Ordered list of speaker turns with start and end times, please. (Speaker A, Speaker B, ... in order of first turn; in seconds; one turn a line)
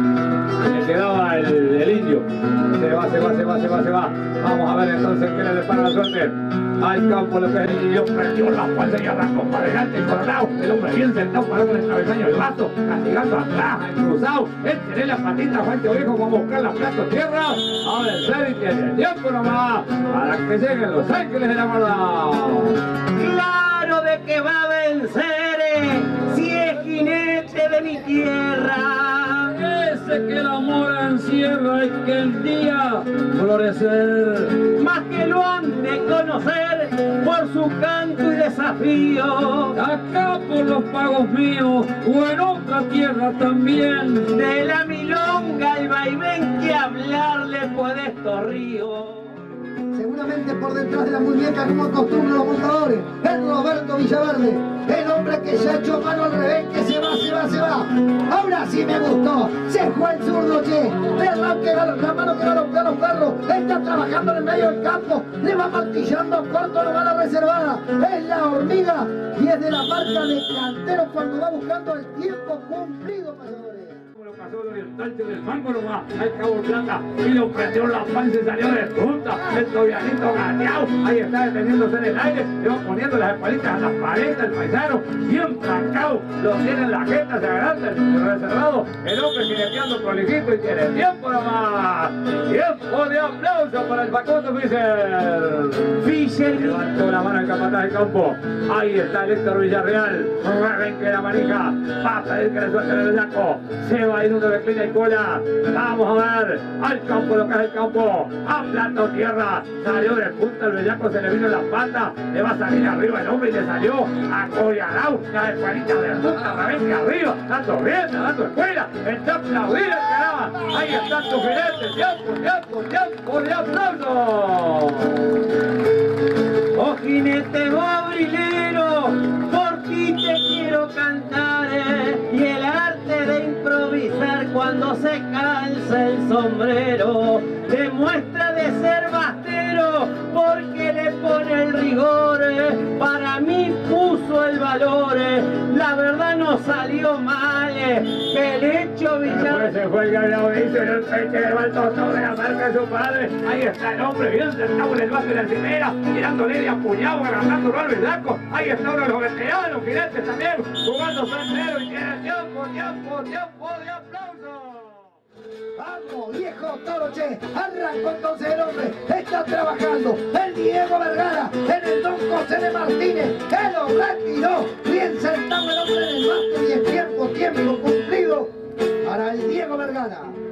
Speaker A: 0.6-22.8
Speaker B: 23.2-29.5
Speaker C: 29.6-34.6
Speaker B: 34.7-39.7
Speaker C: 39.8-44.3
Speaker B: 44.3-49.3
Speaker D: 49.9-74.0
Speaker A: 74.2-95.9
Speaker B: 96.0-96.8
Speaker A: 96.6-125.1
Speaker B: 126.7-149.7
Speaker A: 149.2-165.2
Speaker D: 165.8-180.3